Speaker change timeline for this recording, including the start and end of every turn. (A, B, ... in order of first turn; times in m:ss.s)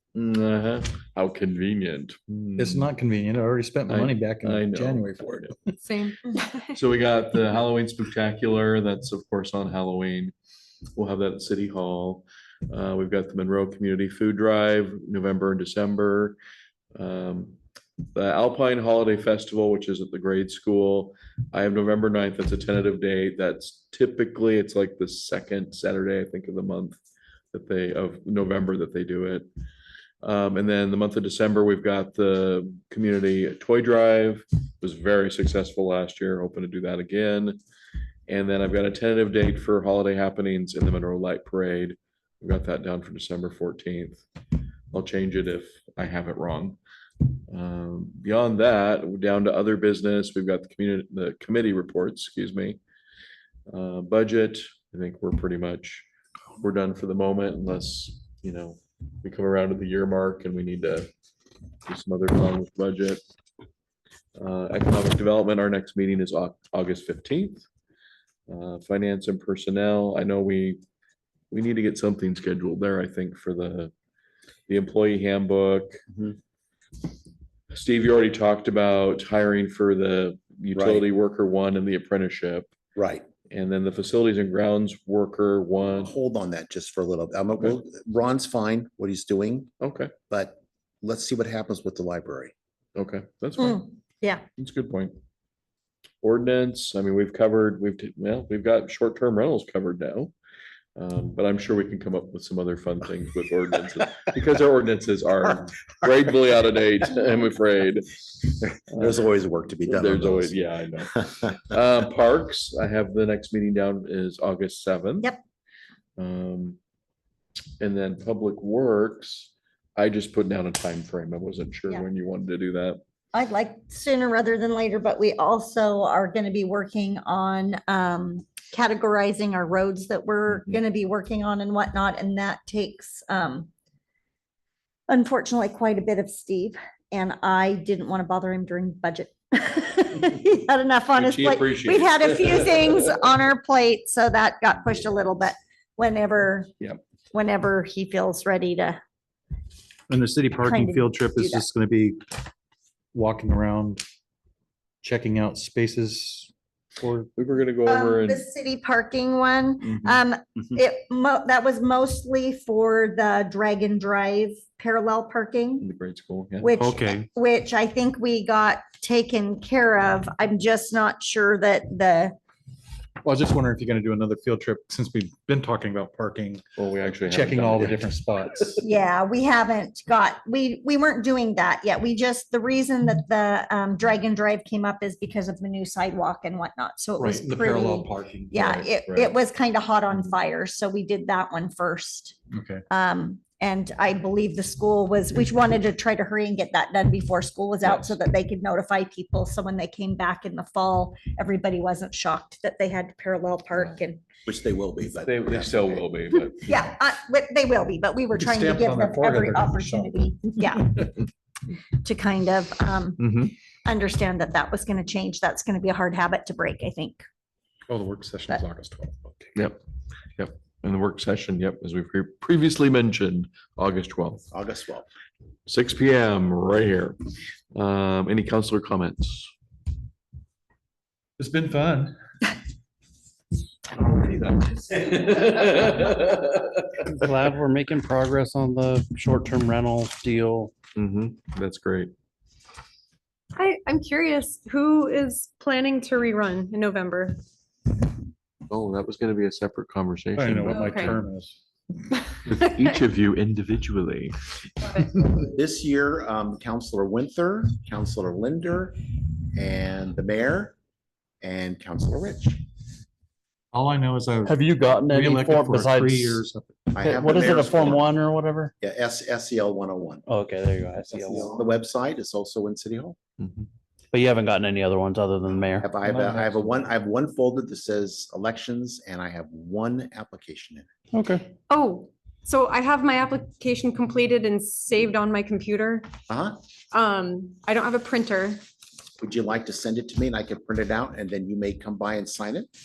0:00.2-0:02.9 A
0:02.6-0:05.8 B
0:03.9-0:05.5 A
0:05.8-0:06.6 C
0:06.7-0:10.3 A
0:11.0-0:16.4 A
0:17.0-0:17.6 A
0:18.1-0:27.0 A
0:27.5-0:29.5 A
0:30.2-0:37.6 A
0:38.3-0:44.2 A
0:44.9-0:46.8 A
0:47.5-0:52.8 A
0:53.7-0:56.1 A
0:56.6-1:01.1 A
1:01.9-1:03.2 A
1:04.4-1:07.6 A
1:08.5-1:10.8 A
1:11.5-1:13.9 A
1:14.7-1:16.0 A
1:17.7-1:22.7 A
1:20.7-1:21.1 D
1:23.0-1:23.3 D
1:23.5-1:26.1 A
1:26.0-1:29.7 D
1:29.8-1:30.1 A
1:30.3-1:32.5 D
1:33.0-1:33.9 A
1:33.6-1:34.4 E
1:34.6-1:35.1 A
1:36.2-1:40.3 A
1:41.0-1:48.2 A
1:48.9-1:50.6 D
1:49.9-1:55.3 A
1:56.2-1:56.8 A
1:57.8-2:03.0 A
2:03.3-2:13.7 E
2:15.1-2:26.7 E
2:21.1-2:23.2 A
2:27.3-2:29.0 E
2:30.1-2:32.3 B
2:30.6-2:31.6 E
2:33.1-2:34.0 B
2:35.0-2:37.3 B
2:37.4-2:38.4 A
2:37.8-2:45.8 E
2:45.8-2:46.8 A
2:46.6-2:52.4 E
2:46.8-2:47.2 B
2:53.2-2:56.6 B
2:56.8-2:58.0 A
2:57.2-2:58.8 B
2:58.8-3:12.4 E
3:07.2-3:09.3 A
3:07.2-3:08.4 B
3:12.5-3:12.8 B
3:12.9-3:24.2 E
3:17.8-3:18.2 A
3:24.5-3:26.0 D
3:25.2-3:26.8 A
3:26.6-3:31.2 E
3:28.3-3:30.2 B
3:32.0-3:33.3 E
3:33.2-3:33.5 A
3:33.8-3:37.2 E
3:37.9-3:39.6 B
3:40.4-3:44.5 A
3:44.5-3:45.1 D
3:45.7-3:47.2 A
3:47.8-3:49.5 A
3:51.4-3:52.1 B
3:53.9-3:57.0 A
3:57.1-4:00.7 F
4:00.9-4:02.1 A
4:03.6-4:07.4 C
4:08.7-4:11.2 A
4:10.4-4:11.6 B
4:10.7-4:11.2 C
4:12.5-4:14.3 A
4:15.3-4:20.7 D
4:21.4-4:22.6 D
4:23.7-4:26.8 B
4:24.5-4:26.1 F
4:26.9-4:28.1 D
4:27.0-4:28.6 F
4:28.8-4:30.2 D
4:30.3-4:31.4 F
4:31.1-4:33.2 D
4:34.1-4:35.9 F
4:35.8-4:40.9 D
4:36.1-4:36.6 B
4:41.7-4:46.1 C
4:46.3-4:46.6 D
4:46.9-4:48.6 C
4:49.2-4:52.7 D